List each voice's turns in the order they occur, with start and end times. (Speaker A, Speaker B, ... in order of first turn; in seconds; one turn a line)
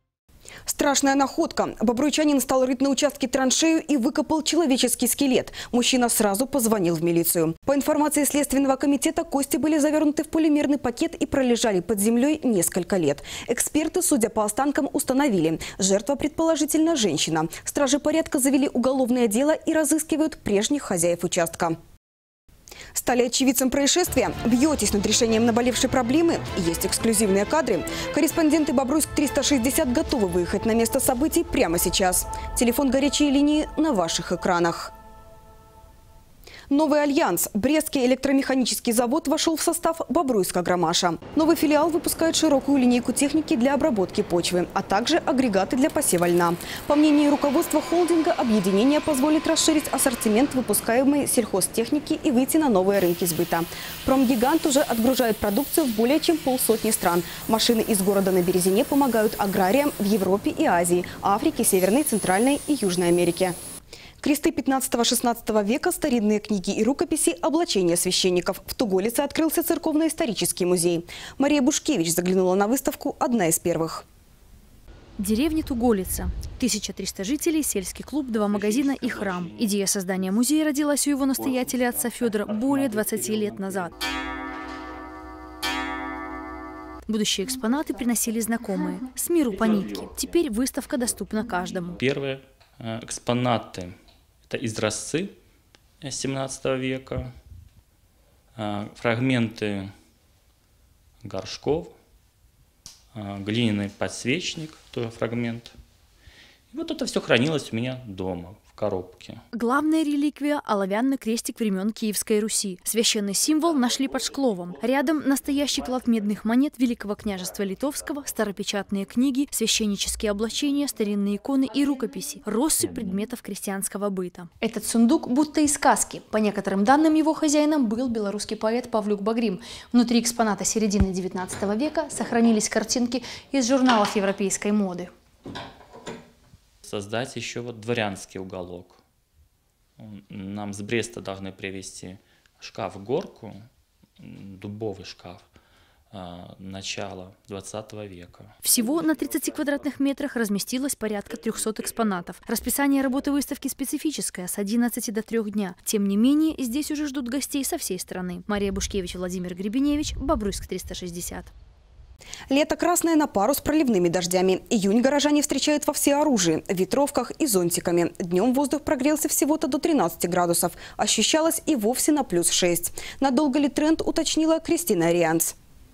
Speaker A: 0.7-21.8
Speaker A: 22.9-34.9
Speaker A: 36.7-63.6
Speaker A: 64.2-74.0
Speaker B: 75.2-83.9
Speaker B: 87.1-92.0
Speaker C: 92.0-94.0
Speaker C: 94.5-95.4
Speaker C: 96.0-97.3
Speaker C: 98.6-99.9
Speaker C: 101.2-101.9
Speaker C: 103.2-105.7
Speaker C: 106.7-109.4
Speaker B: 109.5-135.1
Speaker C: 136.8-139.0
Speaker C: 140.0-143.6
Speaker C: 144.2-145.5
Speaker C: 146.1-148.5
Speaker B: 148.6-161.5
Speaker A: 162.5-175.5